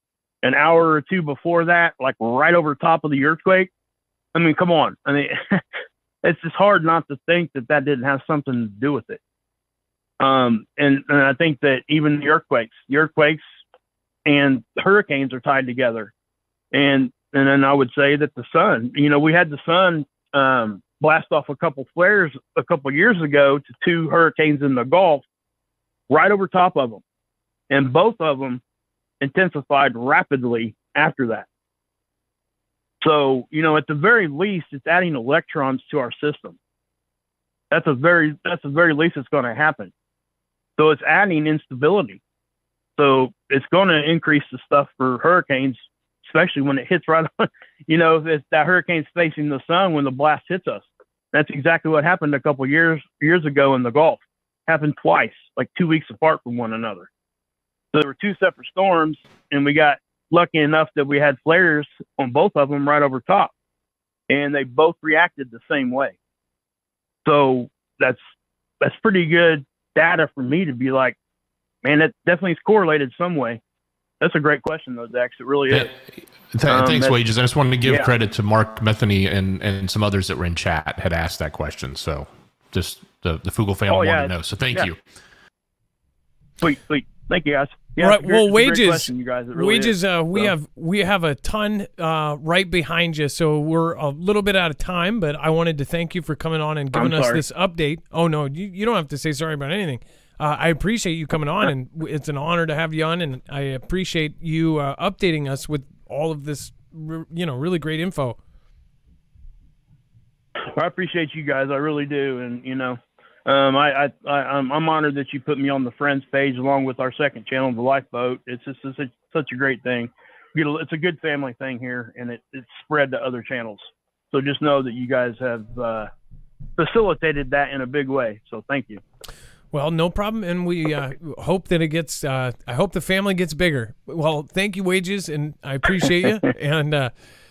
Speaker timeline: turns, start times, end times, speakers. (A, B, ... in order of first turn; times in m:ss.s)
0:00.4-0:03.7 A
0:04.4-0:05.6 A
0:06.2-0:09.2 A
0:10.2-0:13.4 A
0:14.3-0:16.1 A
0:16.7-0:25.2 A
0:26.1-0:27.0 A
0:27.7-0:28.6 A
0:29.2-0:31.5 A
0:33.0-0:36.6 A
0:37.7-0:39.9 A
0:40.8-0:42.2 A
0:43.0-0:57.1 A
0:57.9-1:03.5 A
1:04.3-1:06.2 A
1:07.2-1:08.2 A
1:08.8-1:11.2 A
1:11.8-1:13.6 A
1:14.2-1:15.9 A
1:16.5-1:25.0 B
1:16.7-1:17.2 A
1:17.8-1:18.1 A
1:23.9-1:24.9 A
1:26.6-1:30.5 A
1:28.0-1:48.4 C
1:37.0-1:37.4 A
1:50.8-2:06.1 A
2:06.8-2:09.0 A
2:09.7-2:17.1 C